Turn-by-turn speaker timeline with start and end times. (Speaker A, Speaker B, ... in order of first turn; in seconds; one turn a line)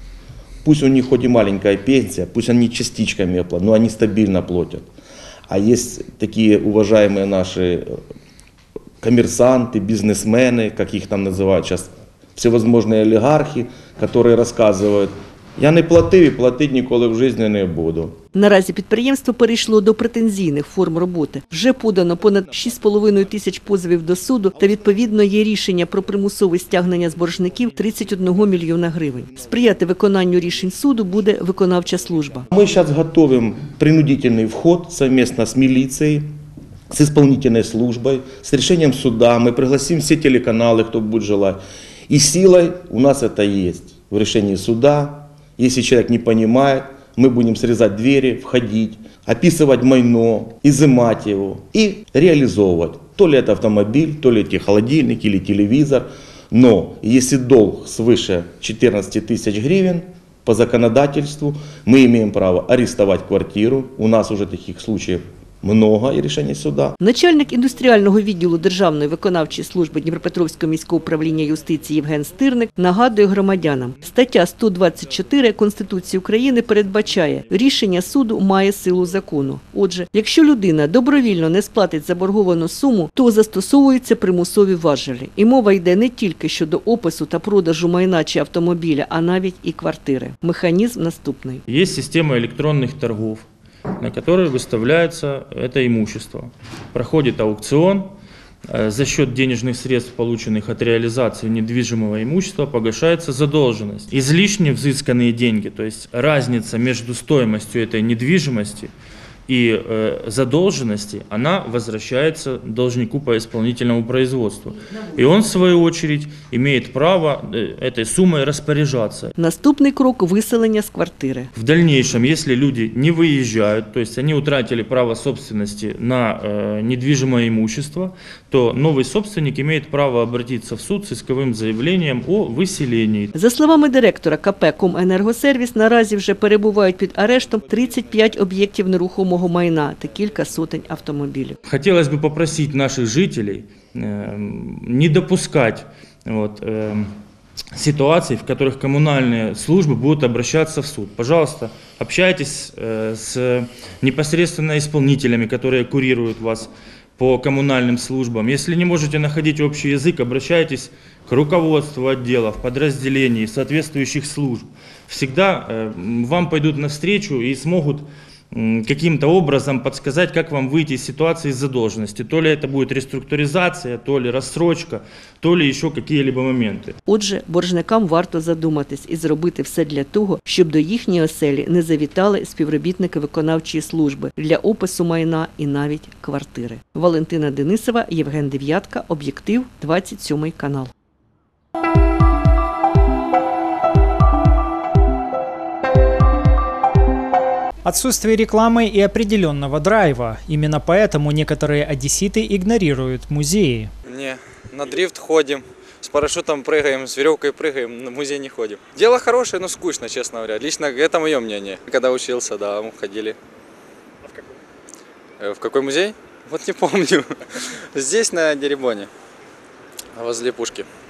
Speaker A: 0.6-4.9
Speaker A: 5.5-8.0
Speaker A: 9.0-18.2
Speaker B: 18.3-32.5
Speaker A: 32.5-36.3
Speaker A: 36.9-67.0
Speaker B: 67.0-91.6
Speaker C: 91.7-93.5
Speaker C: 94.0-98.1
Speaker C: 98.7-108.9
Speaker C: 109.5-119.3
Speaker B: 119.4-121.5
Speaker C: 121.5-133.3
Speaker B: 133.3-141.6
Speaker C: 141.7-147.2
Speaker C: 147.8-177.0
Speaker B: 177.1-190.9
Speaker D: 197.8-203.9
Speaker E: 204.1-213.3
Speaker E: 215.4-217.3
Speaker E: 217.9-219.1
Speaker E: 220.2-220.8